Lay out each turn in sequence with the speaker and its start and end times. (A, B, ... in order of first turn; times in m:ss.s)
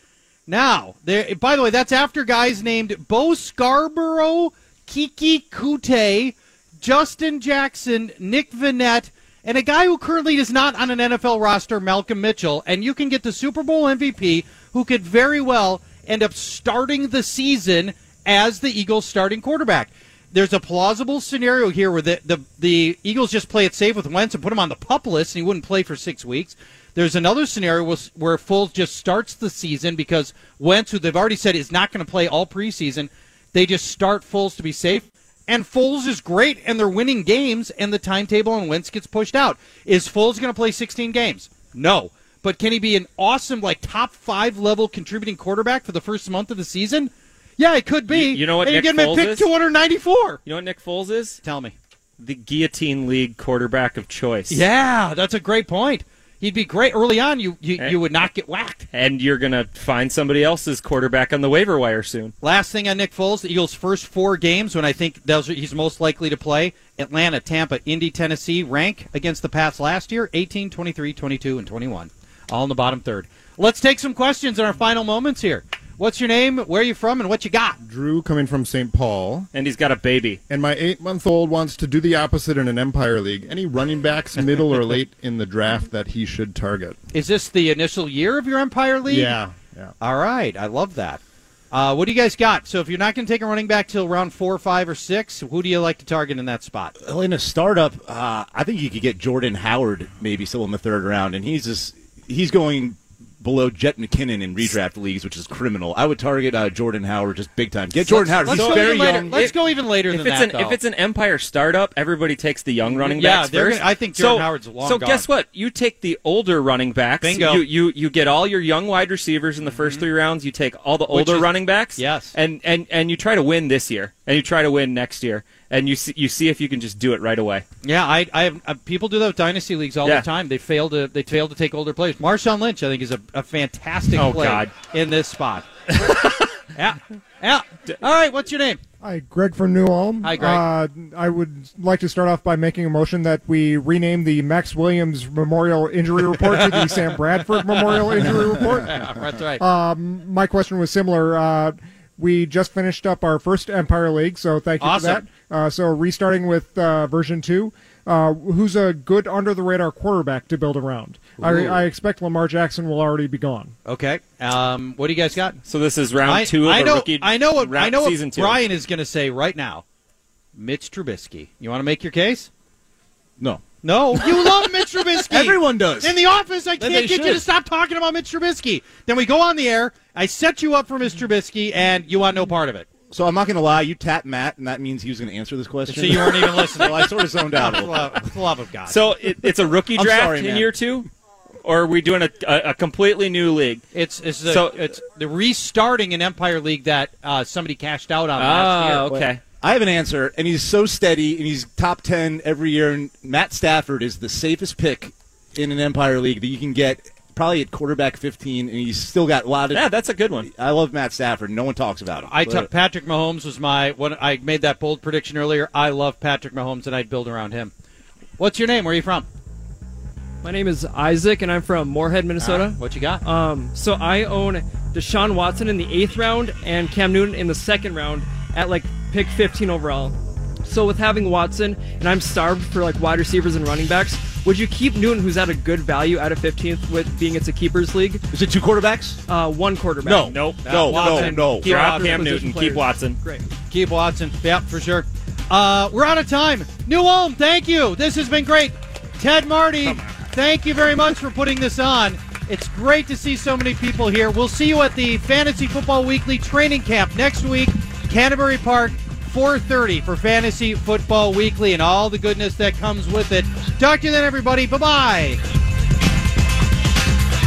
0:00.5-0:50.4 A
0:48.1-0:49.5 B
0:50.4-0:51.4 B
0:51.4-0:51.8 A
0:52.2-0:54.6 B
0:54.5-0:58.9 A
0:58.9-1:02.3 B
1:02.4-1:17.8 A
1:17.8-1:19.5 C
1:19.5-1:20.4 B
1:20.5-1:27.0 C
1:27.1-1:29.4 A
1:29.1-1:29.9 C
1:30.0-1:31.2 A
1:31.7-1:37.0 A
1:37.0-1:49.5 D
1:48.1-2:07.6 B
1:48.1-1:50.8 A
1:52.8-1:55.2 A
1:57.2-1:57.6 A
1:59.6-2:00.0 A
2:01.1-2:02.4 A
2:07.8-2:15.7 A
2:14.2-2:14.7 B
2:16.0-2:16.4 B
2:16.7-2:18.8 A
2:19.0-2:43.7 E
2:20.2-2:20.6 A
2:26.4-2:29.6 A
2:34.8-2:35.2 A
2:41.4-2:41.8 A
2:43.9-2:45.6 A
2:45.7-2:48.6 B
2:46.2-2:49.8 A
2:50.6-2:52.5 A
2:53.4-2:54.7 D
2:53.8-3:02.9 A
2:55.3-2:56.2 D
2:56.8-2:57.5 D
3:03.1-3:08.3 D
3:05.9-3:09.0 A
3:08.9-3:11.1 B
3:09.9-3:10.8 D
3:11.6-3:13.8 B
3:13.9-3:19.1 A
3:14.5-3:14.8 B
3:18.4-3:19.4 B
3:19.1-3:29.9 D
3:29.7-3:30.5 B
3:30.4-3:32.7 D
3:32.3-3:37.7 A
3:38.4-3:39.3 A
3:40.4-3:58.2 F
3:42.4-3:43.2 A
3:58.3-3:59.2 D
3:59.3-4:03.5 F
4:00.0-4:01.7 D
4:00.3-4:03.2 B
4:00.6-4:02.2 A
4:03.7-4:25.4 A